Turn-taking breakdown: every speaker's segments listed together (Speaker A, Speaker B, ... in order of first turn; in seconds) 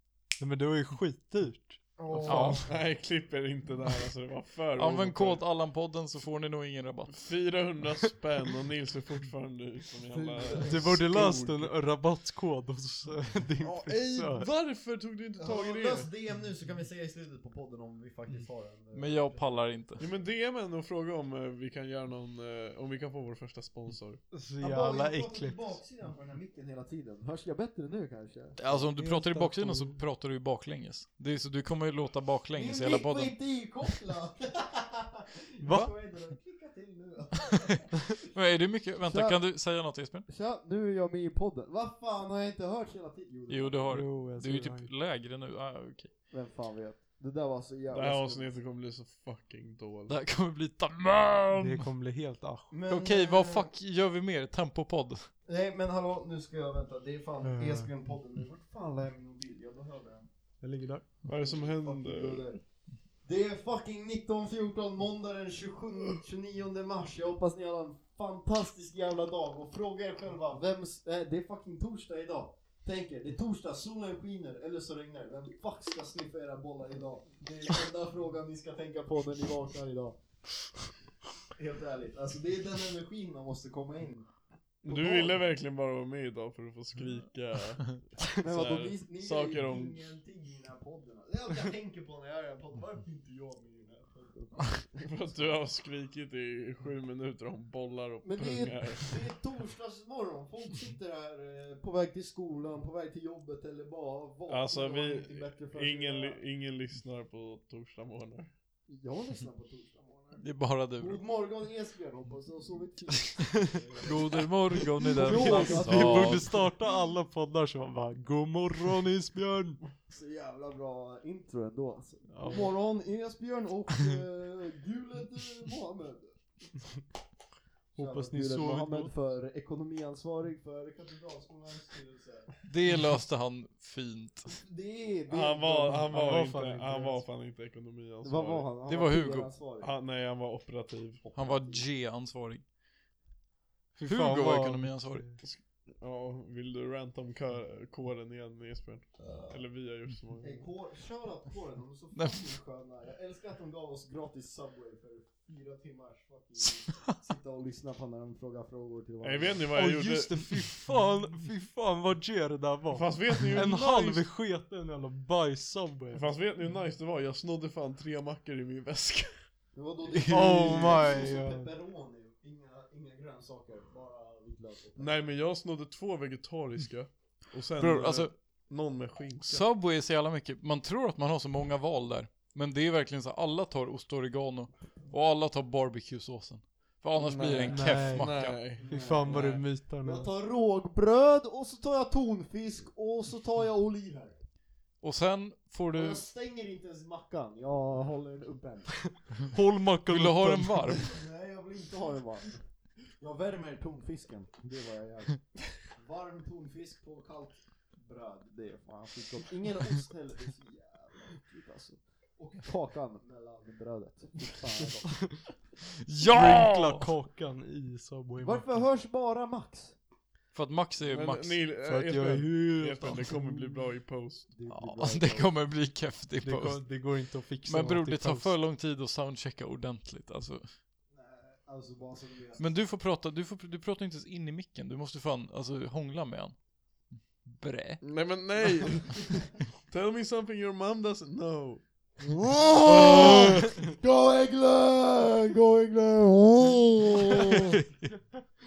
Speaker A: 0.4-2.6, 10.6-14.5, 24.3-25.6, 29.0-30.0, 35.6-35.9, 43.9-44.9, 51.6-52.7, 57.4-57.9, 60.6-61.1, 115.2-119.8, 122.3-122.7, 128.0-129.1, 136.1-137.2, 143.9-145.4, 159.7-166.3, 170.3-171.7, 187.7-190.3, 199.4-201.1, 216.3-218.8, 221.8-223.8, 226.4-228.5
Speaker B: 2.0-2.7, 10.1-11.0, 15.4-19.7, 24.6-29.5, 32.5-38.2, 39.1-39.4, 40.3-44.2, 46.3-48.5, 52.7-53.7, 55.5-60.3, 61.4-62.6, 63.2-80.2, 81.5-84.3, 84.8-85.5, 88.3-95.1, 98.2-106.4, 108.9-116.6, 120.1-126.3, 128.0-132.6, 134.5-136.1, 138.2-139.9, 141.2-141.9, 149.2-149.8, 150.4-159.7, 169.7-175.3, 188.8-194.4, 195.9-199.2, 201.1-215.4, 218.4-220.0, 224.5-225.5, 231.1-232.7, 242.4-247.8
Speaker C: 2.3-2.6, 4.8-7.3, 18.9-20.1, 28.6-33.4, 38.2-40.2, 43.5-46.1, 50.1-51.8, 52.9-55.3, 110.4-111.2, 114.0-116.6, 132.7-134.5, 138.9-139.5, 141.3-142.7, 144.0-145.3, 152.2-152.5, 170.1-171.0, 177.8-178.4, 179.4-188.6, 195.0-196.2, 200.1-201.2, 216.0-217.1, 220.5-221.6, 224.7-230.7, 232.6-238.3, 242.9-243.6
Speaker D: 2.4-5.5, 7.1-11.7, 13.8-16.1, 20.0-24.2, 47.9-50.2, 61.2-62.5, 84.8-90.0, 95.0-99.3, 104.5-108.5, 135.3-138.7, 139.8-141.2, 145.4-150.7, 159.2-160.6, 162.9-164.3, 166.1-169.4, 175.0-179.7, 187.2-189.7, 221.0-224.5, 238.0-241.9